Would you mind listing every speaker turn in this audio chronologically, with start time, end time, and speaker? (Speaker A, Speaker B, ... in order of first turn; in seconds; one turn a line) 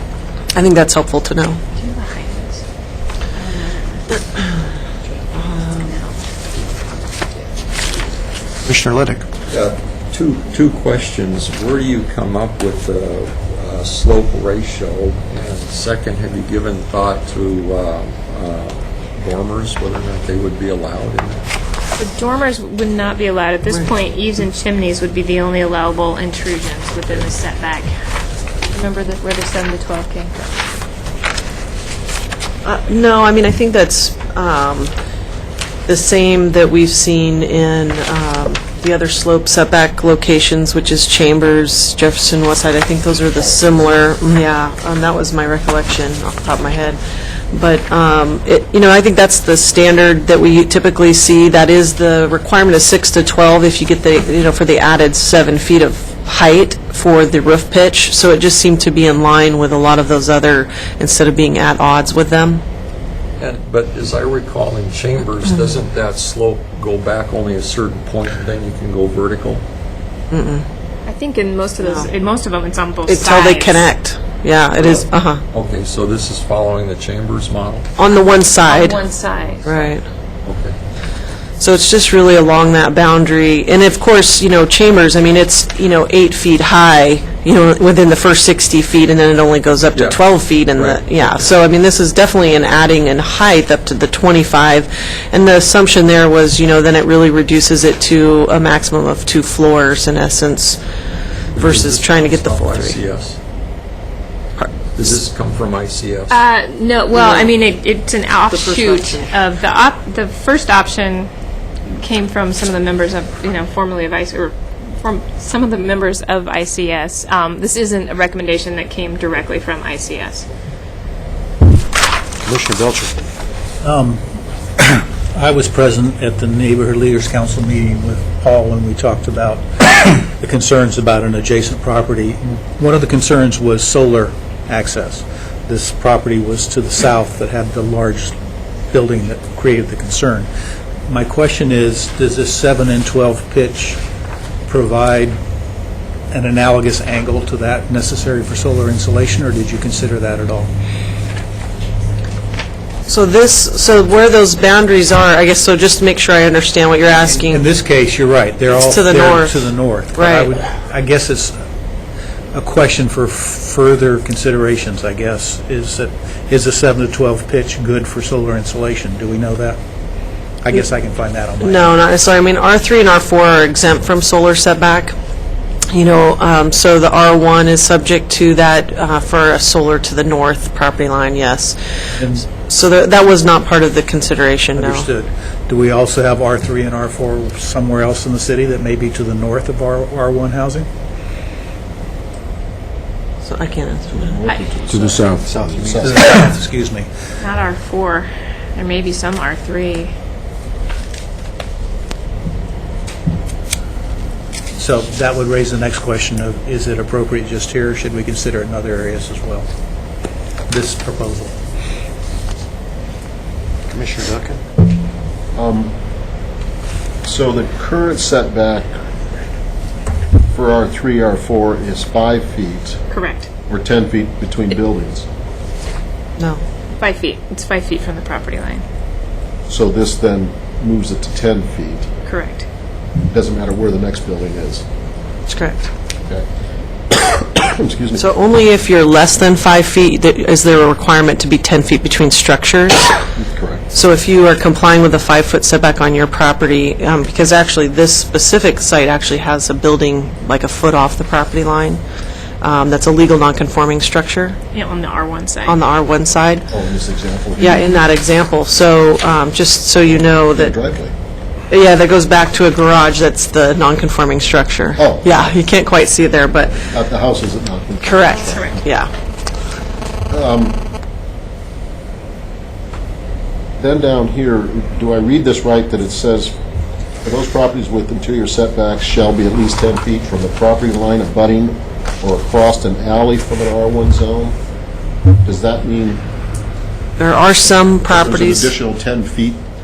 Speaker A: 0.5-1.6
Speaker B: 1.8-2.6
Speaker B: 3.3-4.5
Speaker A: 5.4-6.0
Speaker B: 5.8-6.1
Speaker C: 8.6-9.2
Speaker D: 9.5-21.6
Speaker B: 21.9-27.9
Speaker B: 28.6-30.5
Speaker A: 32.6-34.9
Speaker A: 35.9-47.0
Speaker A: 47.5-62.6
Speaker D: 63.4-69.6
Speaker A: 70.3-70.6
Speaker B: 71.0-73.9
Speaker A: 71.8-72.1
Speaker A: 73.1-75.4
Speaker D: 74.8-77.8
Speaker A: 78.0-79.0
Speaker B: 78.7-79.7
Speaker D: 78.9-79.8
Speaker A: 79.6-80.0
Speaker D: 80.4-80.8
Speaker A: 81.6-100.8
Speaker D: 89.9-91.5
Speaker D: 101.5-103.4
Speaker A: 101.5-103.0
Speaker D: 105.0-106.5
Speaker B: 106.3-111.3
Speaker A: 107.1-107.5
Speaker A: 108.5-109.3
Speaker B: 112.0-120.5
Speaker C: 122.4-123.1
Speaker E: 123.8-124.2
Speaker E: 124.8-138.3
Speaker E: 138.9-140.5
Speaker E: 141.1-144.0
Speaker E: 144.7-145.3
Speaker E: 146.3-150.7
Speaker A: 153.1-157.6
Speaker E: 157.4-161.6
Speaker A: 158.7-160.5
Speaker E: 162.5-169.8
Speaker E: 170.6-171.9
Speaker A: 171.6-175.1
Speaker A: 175.9-181.8
Speaker E: 182.2-182.5
Speaker A: 182.5-185.1
Speaker E: 184.8-190.9
Speaker A: 193.4-194.4
Speaker F: 194.2-196.3
Speaker C: 194.9-196.0
Speaker E: 196.0-197.1
Speaker B: 197.4-200.1
Speaker E: 204.8-209.7
Speaker E: 210.7-211.5
Speaker C: 213.9-214.6
Speaker F: 215.5-215.9
Speaker F: 217.2-218.9
Speaker F: 220.5-223.0
Speaker B: 223.1-223.5
Speaker F: 223.7-225.3
Speaker B: 227.0-228.8
Speaker F: 229.7-232.1
Speaker B: 232.2-232.6
Speaker F: 233.3-234.8
Speaker A: 235.5-235.9
Speaker F: 237.1-238.3
Speaker A: 238.2-243.1
Speaker F: 243.3-243.9
Speaker A: 243.9-252.0
Speaker A: 252.6-254.6
Speaker B: 254.7-255.8
Speaker A: 255.7-256.7
Speaker F: 256.7-257.8
Speaker A: 257.6-260.7
Speaker F: 260.5-261.1
Speaker A: 261.7-266.8
Speaker F: 265.0-265.6
Speaker F: 266.8-268.8
Speaker A: 268.0-269.1
Speaker B: 268.4-268.8
Speaker F: 270.3-270.8
Speaker F: 273.8-276.6
Speaker F: 277.2-284.6
Speaker F: 285.4-286.2
Speaker A: 287.2-288.7
Speaker F: 288.1-289.6